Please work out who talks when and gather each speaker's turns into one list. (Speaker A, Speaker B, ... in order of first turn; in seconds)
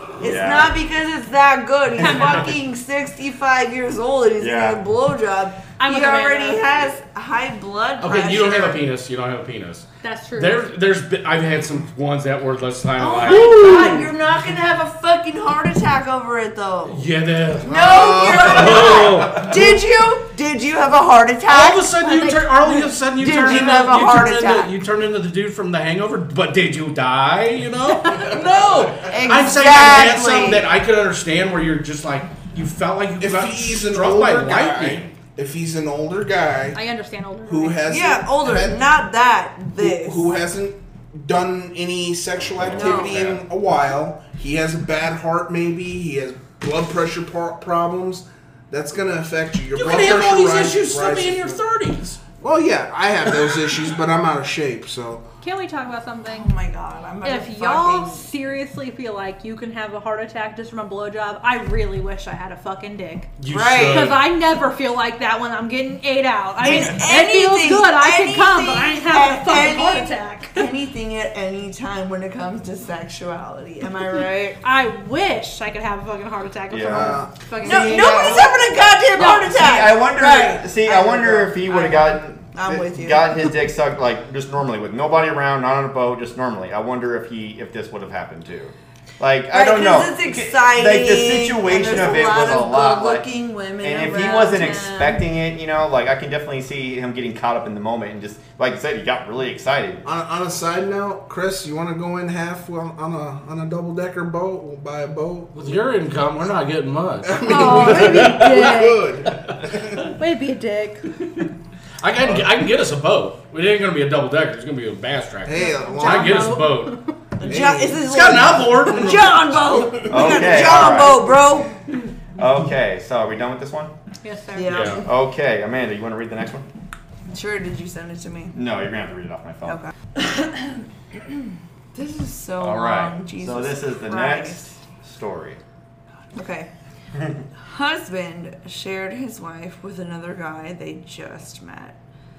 Speaker A: 0.2-8.8, 13.0-17.1, 17.6-21.9, 23.1-24.8, 29.0-30.7, 37.8-40.3, 42.7-43.4, 56.2-58.2, 63.5-64.1, 66.6-74.6, 77.6-83.5, 89.5-95.2, 117.4-121.7, 124.5-125.1, 127.3-128.6, 129.6-134.8, 136.3-136.7, 137.5-142.0
Speaker B: 0.2-0.8, 4.4-4.8, 42.5-43.4, 76.7-77.2, 78.0-78.5, 79.2-93.2, 93.8-100.1, 120.1-121.3, 122.3-123.9, 125.0-126.7, 128.5-129.8, 132.6-135.6
Speaker C: 2.0-2.5, 5.8-6.7, 10.0-10.7, 13.4-13.9, 22.0-22.9, 27.9-28.3, 36.7-37.9, 55.4-56.5, 57.2-63.3, 63.8-70.7, 74.6-78.5, 79.2-79.5, 107.4-109.1, 110.0-111.1, 115.6-117.1, 124.2-124.7
Speaker D: 8.0-14.1, 16.9-19.6, 21.5-35.1, 49.7-52.2, 63.4-64.2, 105.5-108.7, 109.3-109.9, 112.0-117.0, 118.0-119.6, 124.7-125.0
Speaker E: 17.7-19.4, 33.2-36.8, 37.5-38.9, 39.8-51.6, 52.4-55.2, 76.9-78.2, 100.0-105.8, 107.2-110.1, 115.4-116.6, 117.4-118.6